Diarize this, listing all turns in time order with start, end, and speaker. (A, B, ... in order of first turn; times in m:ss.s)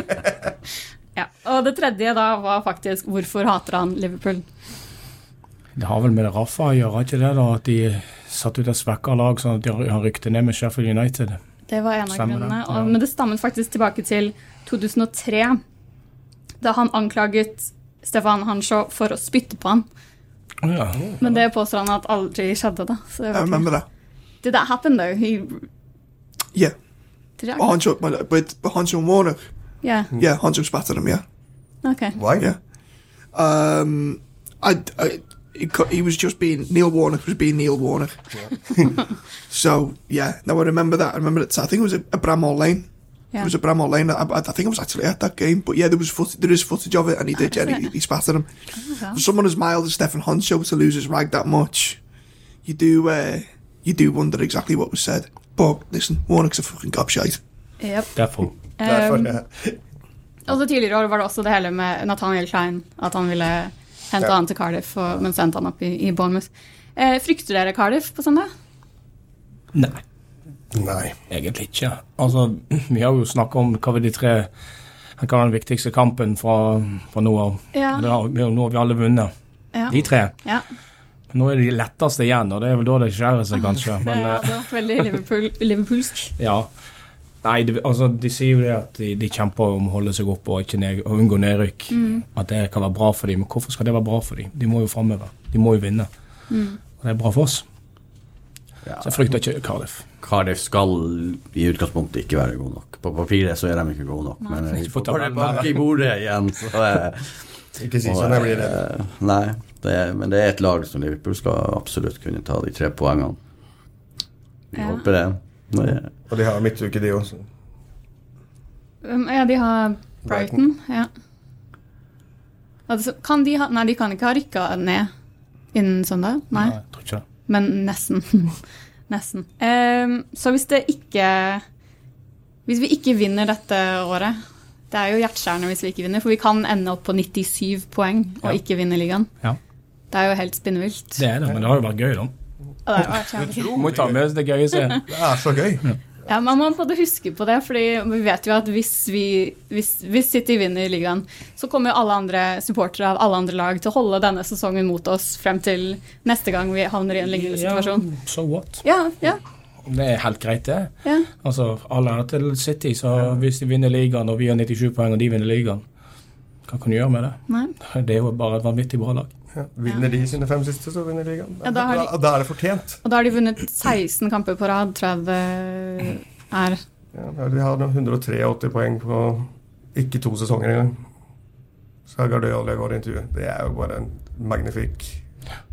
0:01.2-0:04.4 A
0:05.8-0:11.4 B
0:11.7-0:15.6 A
0:12.1-0:13.0 B
0:16.6-0:19.9 A
0:20.6-0:21.3 B
0:21.2-0:23.7 A
0:23.3-0:23.9 C
0:24.4-0:25.7 A
0:27.4-0:27.8 A
0:27.6-0:29.5 C
0:29.8-0:30.1 A
0:30.1-0:31.2 C
0:31.8-0:32.2 A
0:32.2-0:32.5 D
0:32.3-0:32.6 C
0:33.3-0:52.0 C
0:47.4-0:47.9 A
0:48.8-0:49.2 A
0:52.6-0:57.4 C
0:57.8-0:58.1 A
0:58.2-0:58.5 B
0:58.8-0:59.4 A
0:58.8-0:59.8 D
1:00.5-1:08.5 A
1:09.7-1:10.0 B
1:10.7-1:11.2 D
1:11.3-1:14.5 B
1:15.2-1:19.3 B
1:17.7-1:18.1 A
1:19.7-1:20.6 A
1:19.9-1:20.4 B
1:21.3-1:24.6 B
1:24.0-1:26.3 A
1:26.4-1:26.7 B
1:27.4-1:36.1 B
1:31.9-1:32.2 A
1:36.5-1:36.8 A
1:36.9-1:37.6 B
1:38.8-1:39.2 E
1:39.0-1:40.0 B
1:40.2-1:53.4 E
1:44.8-1:45.7 B
1:45.3-1:45.7 D
1:47.8-1:48.8 D
1:54.7-1:56.1 E
1:54.8-1:55.0 A
1:56.3-1:57.5 D
1:59.0-2:01.1 A
2:00.2-2:00.6 D
2:02.9-2:05.1 A
2:05.7-2:06.8 A
2:06.6-2:07.2 B
2:07.4-2:11.6 A
2:12.7-2:14.4 A
2:14.9-2:19.3 A
2:20.1-2:21.2 A
2:21.2-2:22.3 B
2:22.9-2:23.8 A
2:23.2-2:24.2 D
2:23.7-2:25.1 B
2:24.7-2:25.0 A
2:25.1-2:25.9 D
2:26.3-2:38.2 A
2:37.2-2:38.8 B
2:38.8-2:39.4 A
2:39.8-2:45.8 B
2:46.7-2:49.3 B
2:49.5-2:53.0 D
2:51.6-2:52.1 A
2:53.0-2:56.8 A
2:57.1-3:01.0 D
3:02.1-3:05.2 D